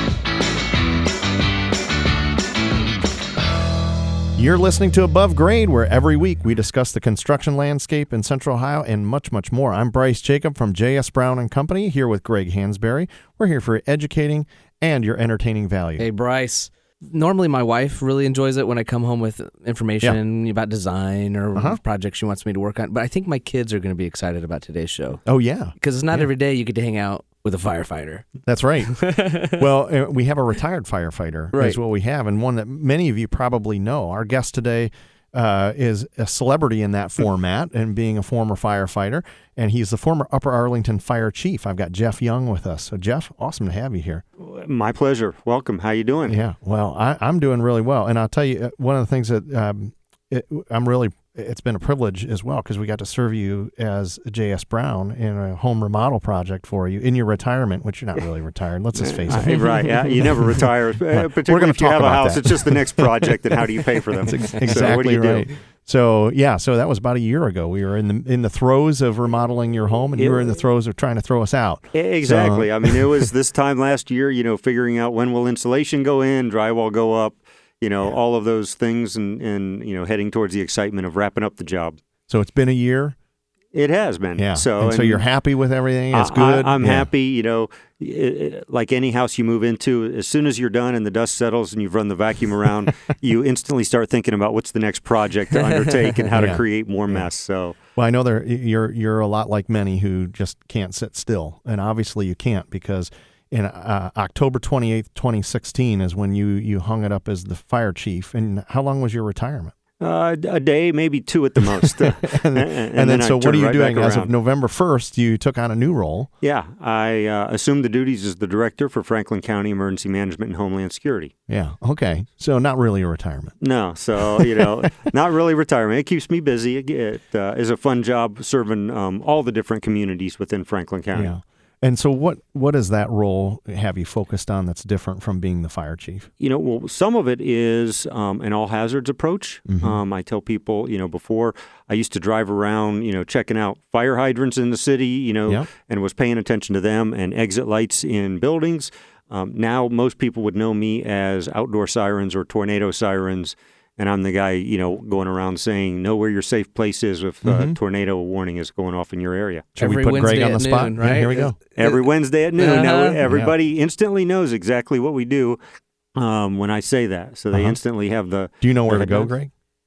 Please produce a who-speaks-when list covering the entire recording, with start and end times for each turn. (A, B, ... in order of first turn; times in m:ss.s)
0:04.4-0:16.0 A
0:16.0-0:25.2 B
0:21.5-0:21.8 A
0:25.2-0:26.3 A
0:25.8-0:28.2 B
0:28.4-0:44.2 A
0:29.0-0:29.6 B
0:31.5-0:31.8 B
0:44.4-0:46.4 C
0:46.2-1:13.3 A
0:59.0-1:05.5 C
1:10.2-1:10.5 C
1:11.9-1:22.0 C
1:22.3-1:23.2 A
1:23.7-1:25.2 C
1:24.4-1:27.1 A
1:26.1-1:37.8 C
1:36.3-1:37.3 A
1:38.0-1:49.7 A
1:50.0-1:54.3 C
1:51.8-1:56.3 A
1:56.4-2:01.3 C
2:01.5-2:03.6 A
2:03.6-2:11.3 C
2:04.2-2:05.0 A
2:11.1-2:16.3 A
2:16.4-2:39.7 C
2:19.7-2:20.0 A
2:37.4-2:37.8 A
2:39.8-2:41.6 A
2:39.8-2:43.2 B
2:41.8-2:45.6 C
2:43.2-2:43.5 A
2:46.2-2:49.3 C
2:47.5-2:47.8 A
2:48.6-2:49.5 A